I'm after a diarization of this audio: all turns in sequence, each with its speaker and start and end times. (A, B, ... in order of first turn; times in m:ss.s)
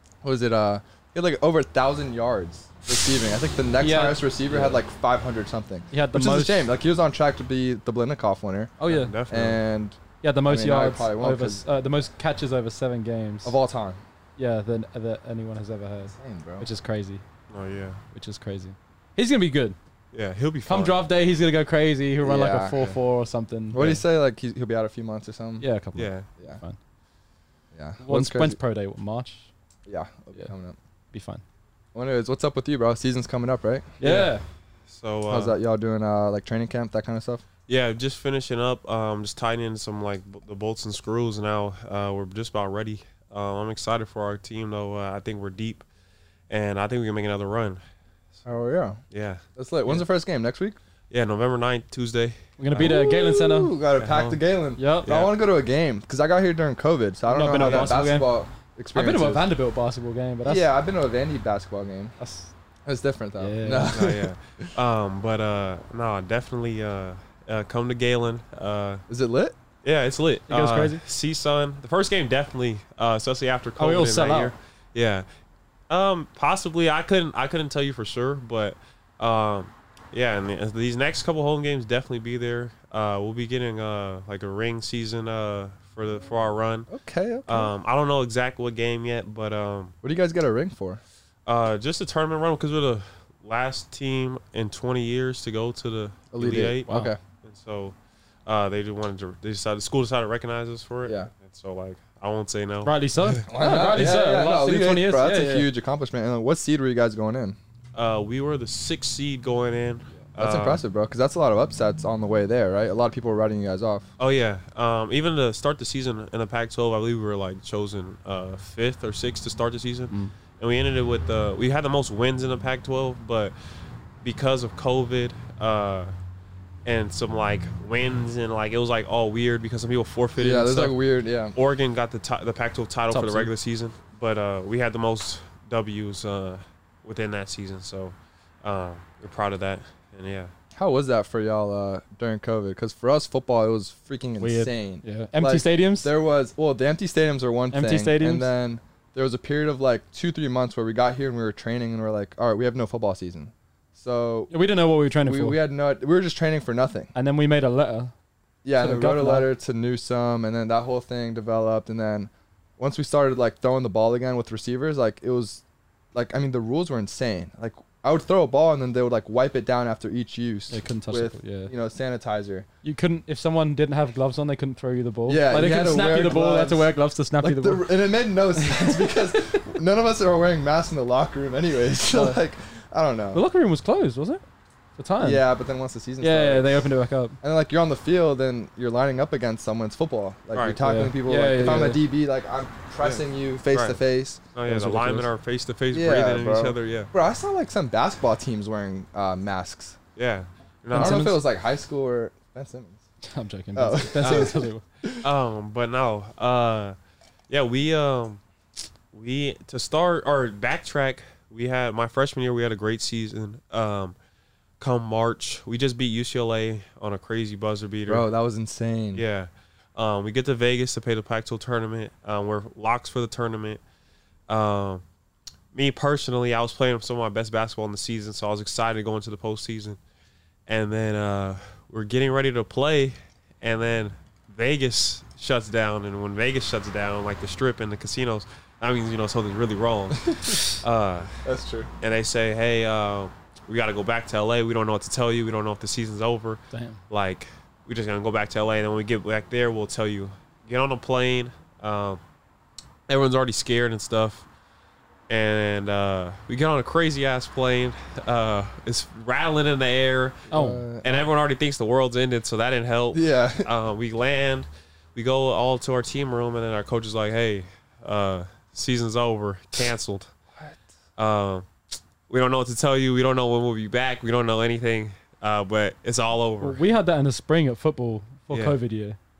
0:00.2-0:08.8 A
0:03.8-0:04.8 B
0:05.9-0:06.7 B
0:08.8-0:09.1 B
0:08.8-0:09.6 C
0:09.3-0:12.0 A
0:10.2-0:13.6 B
0:13.4-0:14.0 A
0:14.4-0:17.2 B
0:16.2-0:16.7 A
0:17.5-0:18.0 C
0:18.1-0:19.8 B
0:20.1-0:21.0 C
0:20.7-0:24.0 B
0:22.2-0:22.9 A
0:23.7-0:25.7 A
0:25.6-0:26.8 B
0:26.0-0:26.3 C
0:27.7-0:28.6 A
0:28.0-0:29.5 B
0:29.9-0:30.8 A
0:31.1-0:31.4 B
0:31.9-0:33.9 A
0:34.0-0:34.4 B
0:34.0-0:34.4 C
0:34.9-0:35.6 C
0:35.3-0:37.4 A
0:37.7-0:45.9 C
0:46.5-0:47.8 C
0:48.4-0:49.0 A
0:49.1-0:49.4 C
0:49.6-0:50.8 A
0:51.1-0:52.4 C
0:52.6-0:53.7 B
0:52.8-0:59.5 A
0:54.0-0:54.4 C
0:54.8-0:55.1 B
0:55.0-0:55.3 C
0:57.3-0:58.3 B
0:57.6-0:57.9 C
0:58.9-1:00.7 B
1:00.4-1:02.2 A
1:02.2-1:02.5 B
1:02.8-1:04.3 A
1:03.4-1:03.9 B
1:03.9-1:09.0 C
1:09.1-1:09.6 A
1:09.8-1:15.3 C
1:10.5-1:11.0 B
1:13.8-1:14.5 B
1:15.9-1:26.9 C
1:26.9-1:27.7 A
1:27.5-1:29.9 C
1:30.0-1:31.0 A
1:31.5-1:43.4 C
1:36.3-1:37.2 A
1:36.9-1:37.1 B
1:41.0-1:41.3 A
1:42.8-1:45.7 B
1:43.5-1:47.6 A
1:48.0-1:50.8 C
1:50.4-1:54.1 A
1:54.2-2:03.5 C
2:04.2-2:06.1 C
2:06.8-2:11.0 C
2:10.4-2:11.6 A
2:11.5-2:20.5 C
2:13.1-2:13.5 B
2:20.8-2:34.5 A
2:24.4-2:26.1 B
2:27.7-2:28.5 B
2:34.5-2:35.6 B
2:35.2-2:37.1 A
2:37.2-2:38.1 B
2:38.6-2:45.6 A
2:38.8-2:39.5 B
2:46.1-2:52.7 A
2:50.7-2:51.7 B
2:52.8-2:57.9 B
2:55.3-2:56.9 A
2:57.4-3:03.4 A
2:58.6-2:58.9 B
3:02.1-3:02.4 B
3:03.3-3:04.4 B
3:05.0-3:05.4 B
3:05.2-3:06.9 A
3:06.2-3:07.4 B
3:07.4-3:15.2 A
3:10.5-3:10.9 C
3:10.8-3:12.0 B
3:13.0-3:14.0 C
3:14.5-3:17.1 C
3:14.7-3:15.2 B
3:15.9-3:20.0 A
3:20.2-3:21.4 C
3:20.9-3:21.4 B
3:20.9-3:23.0 A
3:23.2-3:24.8 B
3:23.8-3:25.3 A
3:25.2-3:27.0 C
3:27.5-3:28.4 C
3:29.1-3:34.2 C
3:34.8-3:38.3 C
3:38.1-3:39.2 A
3:39.2-3:43.8 C
3:44.5-3:45.0 C
3:45.7-3:50.0 C
3:50.7-4:01.4 C
4:01.4-4:01.9 A
4:02.0-4:12.2 C
4:06.7-4:07.0 B
4:13.1-4:14.4 C
4:15.3-4:30.3 C
4:20.5-4:21.3 A
4:20.5-4:20.8 B
4:23.1-4:23.7 A
4:31.2-4:31.7 C
4:32.3-4:36.8 C
4:36.6-4:39.2 B
4:38.5-4:38.8 C